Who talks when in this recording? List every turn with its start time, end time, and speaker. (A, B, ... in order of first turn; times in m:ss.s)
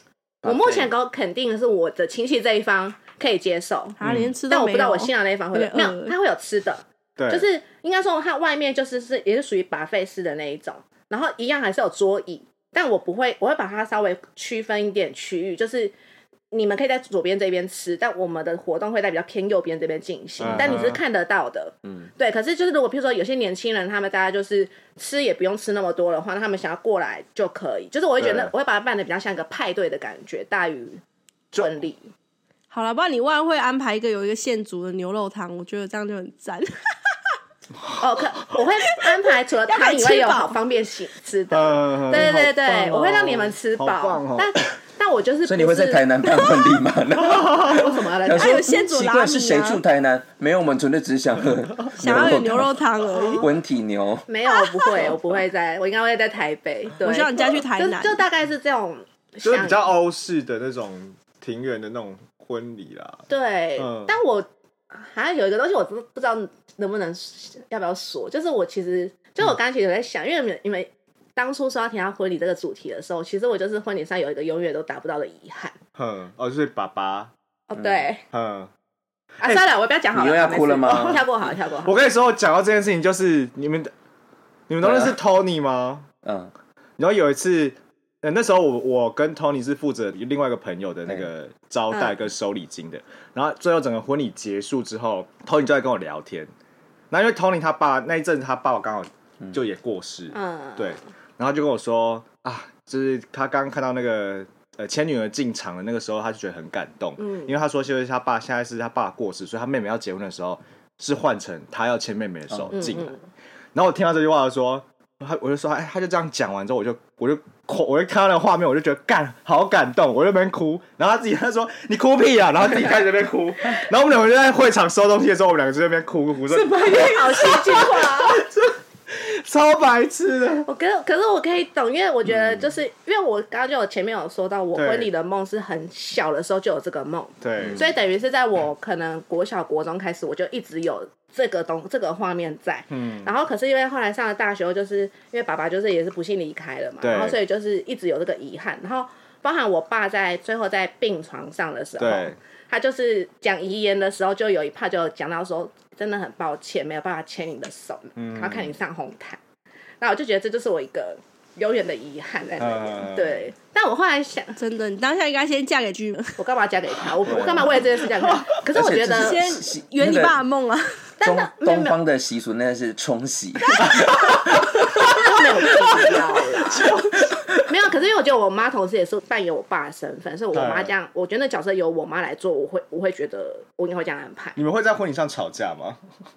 0:00.4-0:00.9 A
0:00.4-0:04.0 B
0:04.0-0:06.1 C
0:04.0-0:04.3 D
0:04.5-0:15.9 B
0:07.2-0:07.4 D
0:16.5-0:31.0 B
0:20.4-0:21.0 D
0:20.4-0:20.8 A
0:21.8-0:22.1 A
0:28.2-0:28.5 D
0:31.5-0:32.1 B
0:32.7-0:36.7 C
0:38.0-0:46.0 B
0:39.7-0:40.6 C
0:41.5-0:44.6 D
0:45.4-0:52.7 A
0:47.4-0:48.6 B
0:48.3-0:49.8 C
0:52.0-0:53.4 C
0:52.1-0:52.3 D
0:53.1-0:53.5 B
0:53.4-0:54.2 A
0:54.3-0:59.9 B
0:54.7-0:55.0 C
0:57.0-0:58.2 C
0:59.4-1:03.2 D
1:03.3-1:15.8 B
1:03.8-1:04.1 D
1:16.0-1:17.3 D
1:17.7-1:18.2 B
1:17.8-1:18.1 A
1:18.3-1:18.7 D
1:19.4-1:21.9 B
1:20.1-1:21.2 A
1:21.8-1:23.9 D
1:24.7-1:26.1 D
1:24.8-1:25.2 A
1:26.2-1:26.5 A
1:27.0-1:36.5 D
1:31.9-1:32.2 B
1:37.1-1:53.2 D
1:40.3-1:40.9 B
1:47.2-1:47.5 B
1:52.5-1:52.8 A
1:52.7-1:53.2 B
1:53.7-2:10.7 D
2:06.7-2:08.4 B
2:10.6-2:39.4 B
2:12.3-2:12.6 A
2:14.7-2:15.1 D
2:17.4-2:17.9 D
2:22.9-2:23.3 D
2:27.0-2:27.4 D
2:32.0-2:32.4 D
2:38.2-2:38.8 D
2:40.0-2:44.6 B
2:42.6-2:43.4 D
2:44.6-2:46.4 C
2:46.4-2:49.4 B
2:47.3-2:47.7 A
2:48.7-2:50.4 A
2:49.0-2:50.9 C
2:51.2-2:52.0 B
2:51.2-2:56.2 A
2:55.1-2:57.0 B
2:56.8-2:57.2 D
2:57.7-3:04.6 B
3:00.5-3:00.9 D
3:04.6-3:06.0 D